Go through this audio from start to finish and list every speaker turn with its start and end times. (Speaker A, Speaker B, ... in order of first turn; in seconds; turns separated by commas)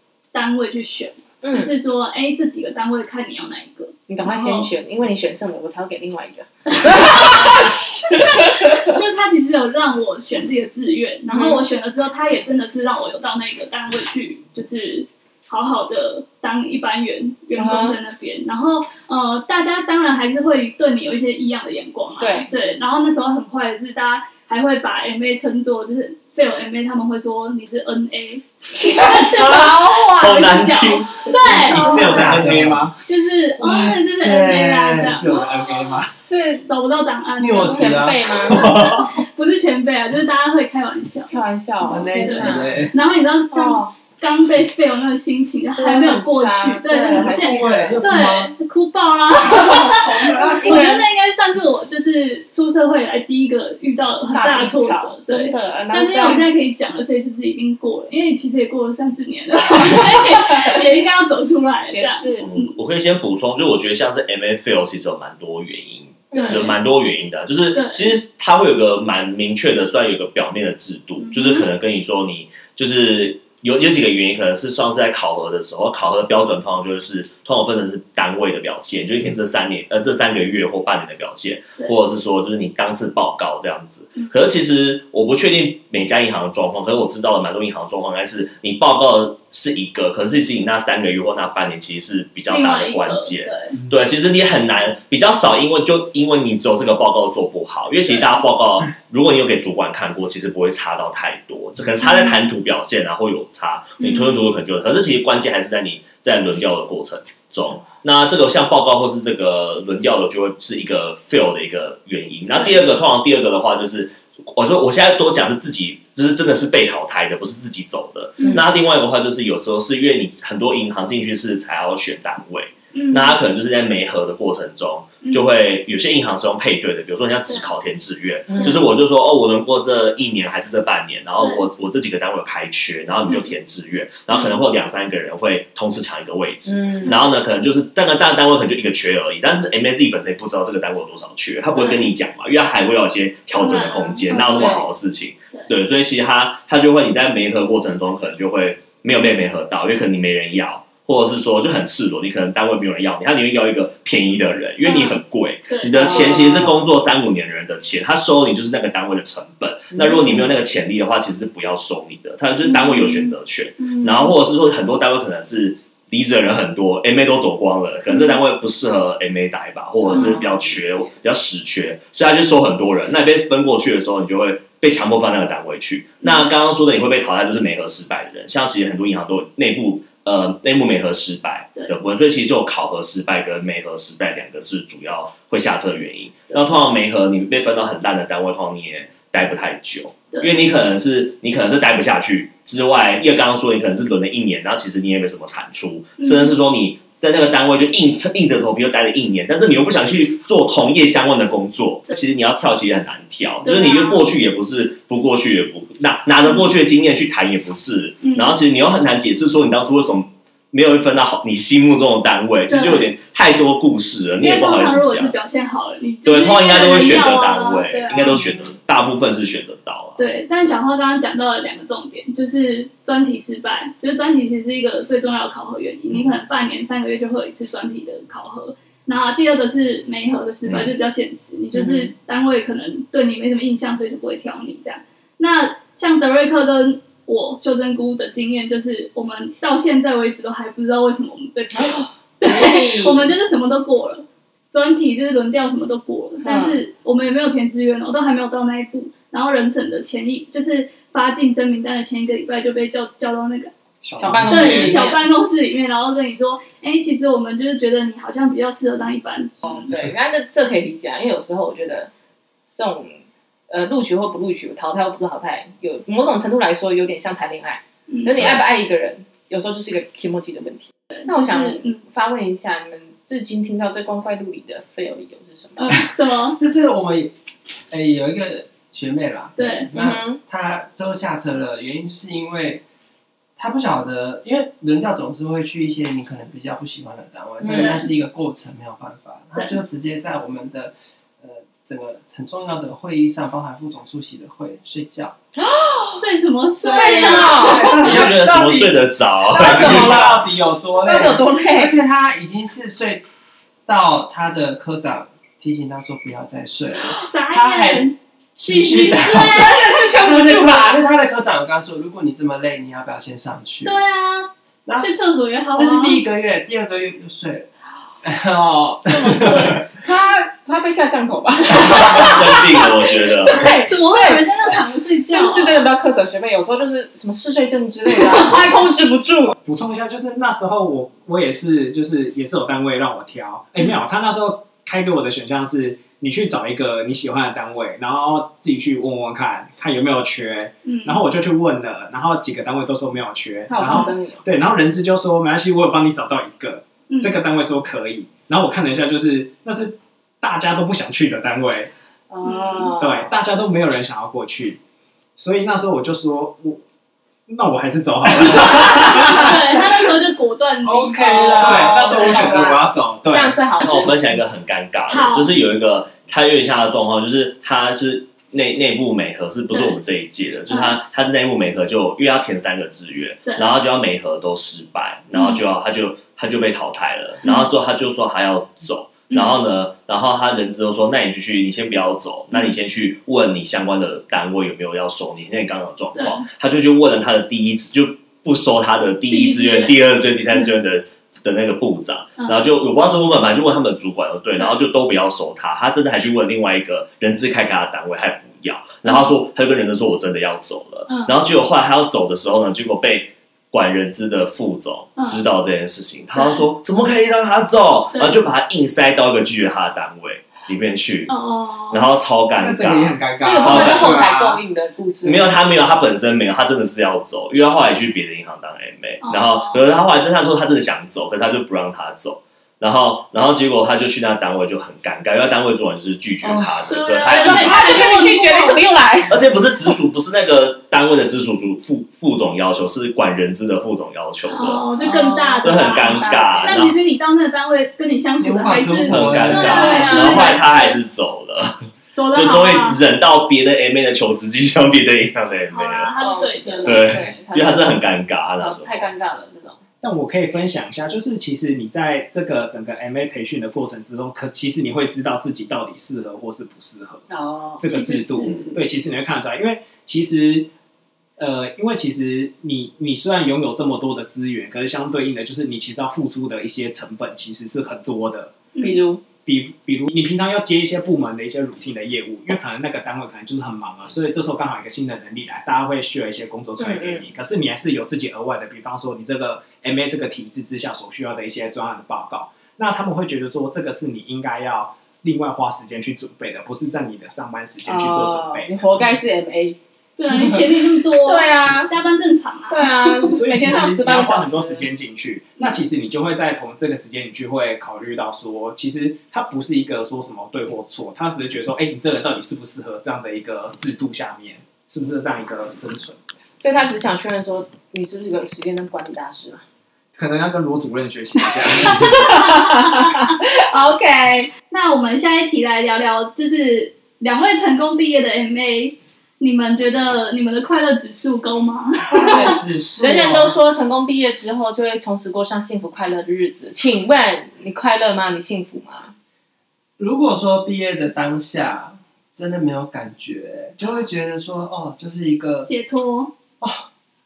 Speaker A: 0.3-4.7, Speaker B: 1.4-1.7, Speaker B: 4.1-9.0, Speaker A: 7.0-32.4, Speaker B: 11.3-11.6, Speaker B: 17.6-18.0, Speaker B: 22.2-22.5, Speaker B: 28.8-29.6, Speaker C: 29.3-32.7, Speaker D: 31.4-33.0, Speaker E: 31.6-32.8, Speaker A: 33.0-35.4, Speaker E: 33.6-35.3, Speaker D: 35.0-36.1, Speaker B: 36.1-36.6, Speaker A: 36.6-41.4, Speaker E: 37.4-39.0, Speaker B: 37.4-38.7, Speaker C: 38.5-39.0, Speaker B: 41.3-42.9, Speaker E: 41.8-42.9, Speaker A: 42.0-62.7, Speaker B: 43.5-43.9, Speaker B: 45.7-48.0, Speaker E: 47.0-48.5, Speaker B: 49.4-51.0, Speaker B: 54.3-56.5, Speaker B: 59.8-60.8, Speaker B: 61.9-62.4, Speaker C: 62.4-215.3, Speaker B: 66.3-66.7, Speaker A: 66.3-66.8, Speaker A: 67.7-68.1, Speaker A: 71.2-71.7, Speaker A: 92.5-93.7, Speaker A: 98.1-98.4, Speaker A: 102.0-102.4, Speaker A: 104.0-104.5, Speaker A: 122.9-123.4, Speaker B: 128.5-128.8, Speaker A: 128.6-128.8, Speaker A: 131.4-131.6, Speaker A: 133.3-133.5, Speaker A: 134.3-134.6, Speaker B: 136.7-137.2, Speaker A: 137.0-137.3, Speaker A: 141.7-142.1, Speaker A: 143.5-144.9, Speaker B: 144.3-144.8, Speaker A: 154.8-156.8, Speaker B: 155.9-156.5, Speaker B: 159.9-160.4, Speaker A: 162.6-164.4, Speaker A: 168.1-168.4, Speaker B: 170.1-171.1, Speaker A: 170.1-170.4, Speaker A: 190.3-190.7, Speaker A: 196.2-196.6, Speaker A: 203.6-204.3, Speaker A: 206.4-206.7, Speaker A: 208.2-208.6, Speaker A: 212.7-213.1, Speaker A: 214.4-218.7, Speaker C: 216.2-220.2, Speaker A: 220.2-253.7, Speaker C: 230.6-230.9, Speaker B: 231.8-232.1, Speaker B: 241.7-243.3, Speaker B: 246.4-246.8, Speaker D: 254.0-255.0, Speaker B: 254.1-255.2, Speaker A: 254.5-259.9, Speaker B: 259.6-262.1, Speaker B: 262.8-276.1, Speaker A: 268.1-268.6, Speaker A: 271.1-272.0, Speaker A: 275.8-276.6, Speaker E: 276.6-277.3, Speaker E: 277.9-282.8, Speaker A: 279.6-279.9, Speaker B: 279.9-280.4, Speaker E: 283.6-295.3, Speaker B: 287.6-288.1, Speaker A: 287.7-288.1, Speaker B: 295.6-296.2, Speaker A: 296.1-298.2, Speaker E: 296.8-303.2, Speaker B: 296.8-298.0, Speaker C: 297.8-300.4, Speaker B: 299.5-300.5, Speaker B: 301.0-302.0, Speaker E: 303.8-314.0, Speaker A: 307.1-310.1, Speaker B: 309.4-311.0, Speaker A: 313.8-316.2, Speaker E: 314.9-315.1, Speaker E: 315.7-317.7, Speaker E: 318.2-319.8, Speaker B: 319.2-324.4, Speaker C: 321.7-323.6, Speaker A: 323.5-325.9, Speaker B: 325.2-329.5, Speaker A: 328.2-328.5, Speaker D: 329.5-351.9, Speaker A: 340.9-341.2, Speaker B: 343.7-344.4, Speaker A: 347.1-347.4, Speaker B: 352.3-353.3, Speaker A: 352.4-352.9, Speaker D: 353.0-354.8, Speaker D: 355.4-356.8, Speaker D: 357.5-360.1, Speaker A: 358.9-362.8, Speaker D: 360.8-363.6, Speaker E: 361.1-363.3, Speaker B: 361.2-364.1, Speaker C: 363.8-411.3, Speaker A: 365.1-365.5, Speaker A: 369.7-370.0, Speaker A: 370.7-371.0, Speaker A: 373.4-373.7, Speaker A: 375.3-375.6, Speaker A: 377.4-377.7, Speaker A: 379.3-379.6, Speaker A: 386.1-386.4, Speaker A: 389.3-390.0, Speaker A: 392.4-392.7, Speaker A: 399.0-399.3, Speaker A: 401.1-401.4, Speaker A: 405.1-405.4, Speaker A: 406.3-406.6, Speaker A: 408.1-408.4, Speaker A: 411.3-412.1, Speaker C: 411.9-414.2, Speaker D: 412.6-414.6, Speaker B: 413.4-415.5, Speaker C: 415.2-428.0, Speaker A: 419.2-419.9, Speaker A: 426.9-428.8, Speaker B: 427.2-429.5, Speaker C: 429.3-434.9, Speaker A: 434.5-441.0, Speaker B: 435.0-436.0, Speaker C: 435.6-437.0, Speaker E: 438.4-440.1, Speaker C: 439.1-446.1, Speaker B: 439.5-440.6, Speaker A: 442.1-443.0, Speaker A: 445.7-447.1, Speaker B: 446.2-447.9, Speaker C: 446.8-449.1, Speaker B: 448.6-449.8, Speaker D: 450.0-460.7, Speaker B: 457.3-457.9, Speaker A: 457.9-458.6, Speaker D: 461.4-468.5, Speaker A: 468.7-469.0, Speaker B: 468.8-469.2, Speaker D: 469.4-489.1, Speaker B: 476.8-477.2, Speaker B: 487.8-489.8, Speaker A: 490.2-493.3, Speaker B: 491.2-491.9, Speaker B: 492.7-494.9, Speaker D: 493.0-506.2, Speaker B: 506.6-509.6, Speaker D: 510.1-512.5, Speaker B: 511.8-514.5, Speaker A: 511.9-513.2, Speaker A: 514.7-522.6, Speaker E: 522.1-523.6, Speaker B: 522.2-529.1, Speaker E: 530.0-535.7, Speaker A: 535.7-536.3, Speaker E: 536.6-536.9